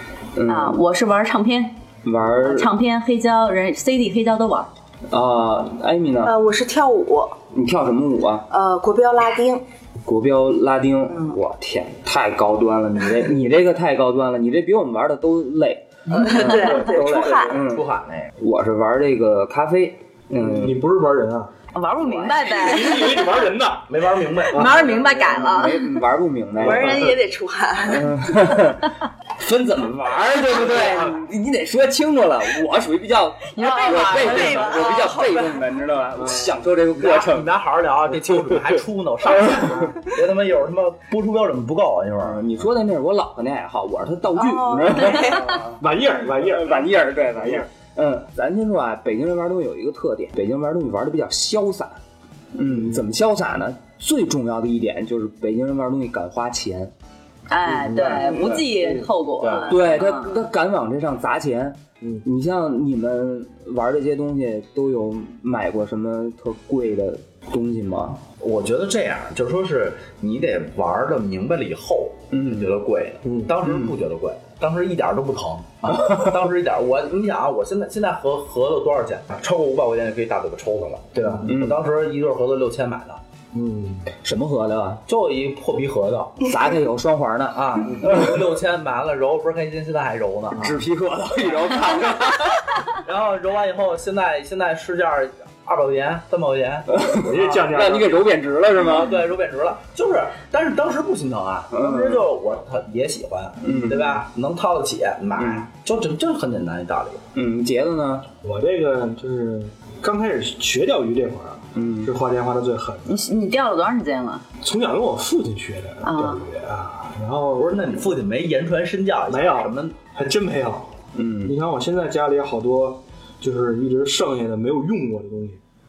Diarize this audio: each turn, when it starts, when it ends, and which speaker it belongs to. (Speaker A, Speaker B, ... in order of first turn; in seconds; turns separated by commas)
Speaker A: 0.4-0.8, Speaker B: 0.5-1.8, Speaker A: 2.0-2.7, Speaker B: 2.3-4.7, Speaker A: 5.1-6.3, Speaker C: 6.2-7.4, Speaker A: 7.5-8.5, Speaker C: 8.5-9.6, Speaker A: 10.1-17.9, Speaker C: 11.1-11.4, Speaker C: 16.1-17.6, Speaker D: 16.6-17.1, Speaker E: 16.8-18.3, Speaker A: 18.4-20.8, Speaker D: 20.4-21.5, Speaker B: 21.7-23.3, Speaker D: 22.4-23.9, Speaker E: 23.9-25.0, Speaker B: 24.5-25.9, Speaker A: 25.3-27.2, Speaker C: 26.6-28.2, Speaker D: 26.6-27.1, Speaker A: 27.9-37.5, Speaker C: 33.6-35.6, Speaker B: 33.6-33.9, Speaker D: 36.2-36.5, Speaker E: 36.9-42.4, Speaker A: 42.2-45.6, Speaker C: 44.4-45.6, Speaker D: 45.8-47.7, Speaker A: 46.4-52.0, Speaker A: 52.5-56.9, Speaker B: 57.5-60.4, Speaker D: 57.8-59.0, Speaker E: 59.4-59.7, Speaker A: 59.7-68.2, Speaker E: 68.4-83.2, Speaker A: 72.3-72.7, Speaker D: 73.2-73.5, Speaker A: 73.6-73.9, Speaker A: 81.5-81.8, Speaker D: 83.5-84.1, Speaker A: 84.2-85.0, Speaker E: 85.1-86.5, Speaker A: 86.4-87.7, Speaker E: 87.5-90.8, Speaker A: 90.6-92.7, Speaker E: 93.0-97.7, Speaker A: 96.9-99.1, Speaker D: 97.2-98.2, Speaker E: 98.8-107.2, Speaker A: 101.7-102.2, Speaker A: 103.6-104.2, Speaker A: 105.4-105.6, Speaker A: 107.3-108.3, Speaker D: 108.4-113.1, Speaker A: 111.7-112.1, Speaker B: 113.0-114.5, Speaker D: 114.6-117.7, Speaker B: 116.0-116.5, Speaker E: 117.5-120.0, Speaker D: 119.3-120.9, Speaker A: 121.1-121.6, Speaker D: 121.5-125.6